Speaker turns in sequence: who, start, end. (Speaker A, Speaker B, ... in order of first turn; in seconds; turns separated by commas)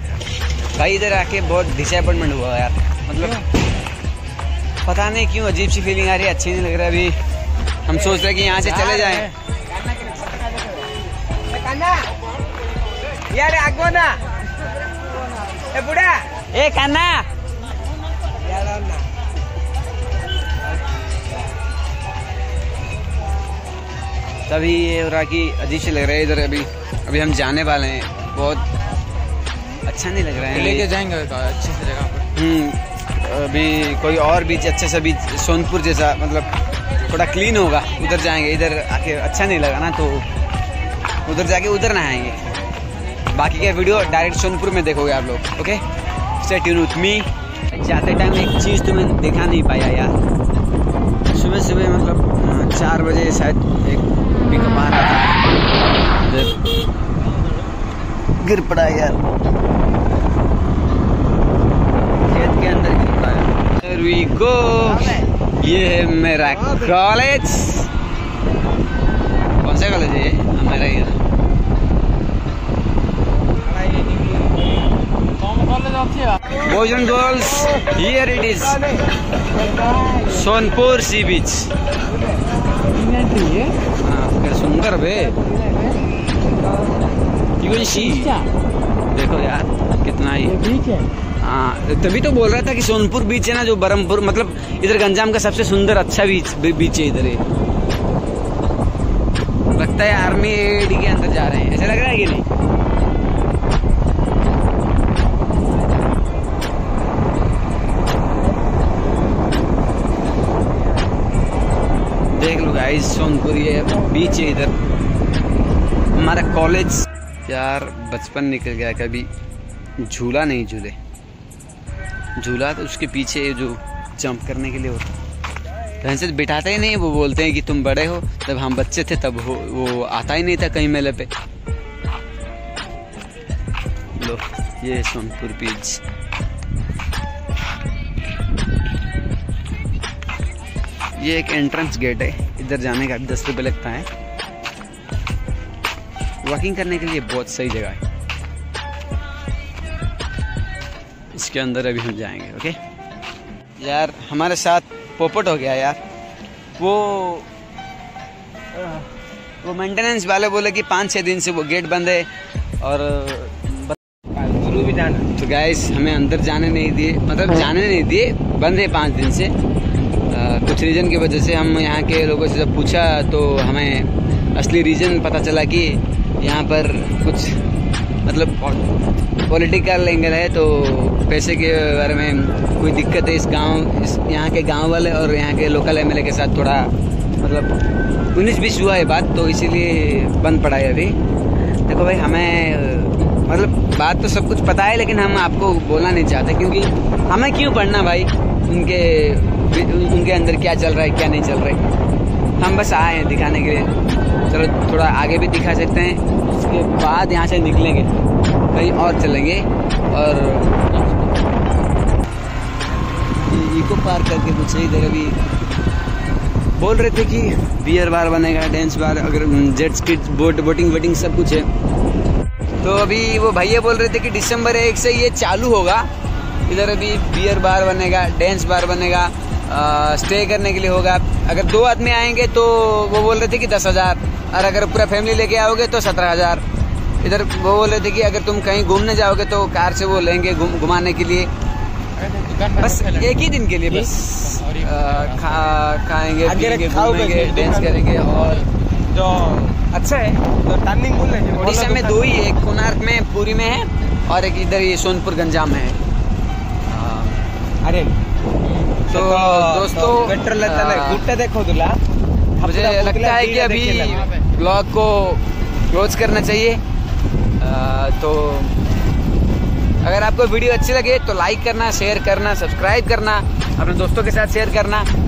Speaker A: 0.7-3.4, Speaker A: 4.8-7.1, Speaker A: 7.8-9.3, Speaker B: 8.5-9.3, Speaker C: 9.7-10.9, Speaker C: 11.5-12.1, Speaker C: 13.3-14.2, Speaker C: 15.5-16.3, Speaker A: 16.5-17.3, Speaker C: 18.3-19.1, Speaker A: 24.5-28.6, Speaker A: 29.8-30.9, Speaker B: 30.5-32.2, Speaker A: 32.3-36.5, Speaker A: 37.1-40.2, Speaker A: 41.2-42.4, Speaker A: 43.3-45.8, Speaker A: 46.4-50.1, Speaker A: 51.3-55.4, Speaker A: 56.2-56.5, Speaker A: 58.4-59.2, Speaker A: 62.3-67.9, Speaker C: 64.8-65.3, Speaker A: 69.6-71.2, Speaker C: 73.6-74.8, Speaker B: 75.4-76.4, Speaker A: 76.6-78.8, Speaker C: 78.6-80.3, Speaker A: 80.2-81.7, Speaker C: 82.1-82.4, Speaker B: 82.8-83.8, Speaker A: 84.0-85.3, Speaker C: 85.4-86.0, Speaker C: 86.6-87.0, Speaker A: 87.6-88.4, Speaker B: 87.9-88.5, Speaker A: 89.1-90.6, Speaker B: 90.4-91.1, Speaker A: 91.4-97.4, Speaker A: 99.7-102.5, Speaker A: 112.3-114.7, Speaker A: 116.2-119.3, Speaker A: 120.0-121.0, Speaker A: 122.4-125.1, Speaker A: 126.0-131.3, Speaker A: 134.2-136.0, Speaker A: 141.2-144.1, Speaker A: 146.4-148.0, Speaker A: 151.3-152.8, Speaker A: 153.8-156.0, Speaker A: 156.8-157.5, Speaker A: 158.7-159.1, Speaker A: 159.6-162.3, Speaker A: 162.8-164.0, Speaker C: 164.3-165.2, Speaker A: 165.4-169.5, Speaker A: 170.3-177.6, Speaker A: 178.2-178.9, Speaker A: 179.5-186.9, Speaker A: 187.4-187.7, Speaker A: 188.3-191.1, Speaker A: 191.8-201.8, Speaker A: 202.6-203.9, Speaker A: 204.5-208.1, Speaker A: 208.7-210.8, Speaker A: 213.3-215.4, Speaker A: 216.8-221.7, Speaker A: 222.8-226.1, Speaker A: 226.7-236.6, Speaker A: 237.2-241.5, Speaker B: 242.2-243.4, Speaker A: 242.8-248.6, Speaker B: 244.2-245.7, Speaker C: 246.4-252.2, Speaker B: 248.4-248.7, Speaker A: 251.6-256.0, Speaker A: 256.9-257.4, Speaker C: 257.8-258.2, Speaker B: 258.7-258.9, Speaker C: 259.1-262.0, Speaker A: 259.1-261.2, Speaker C: 262.6-264.3, Speaker A: 262.6-266.8, Speaker B: 264.1-264.4, Speaker A: 267.6-268.7, Speaker A: 270.0-275.1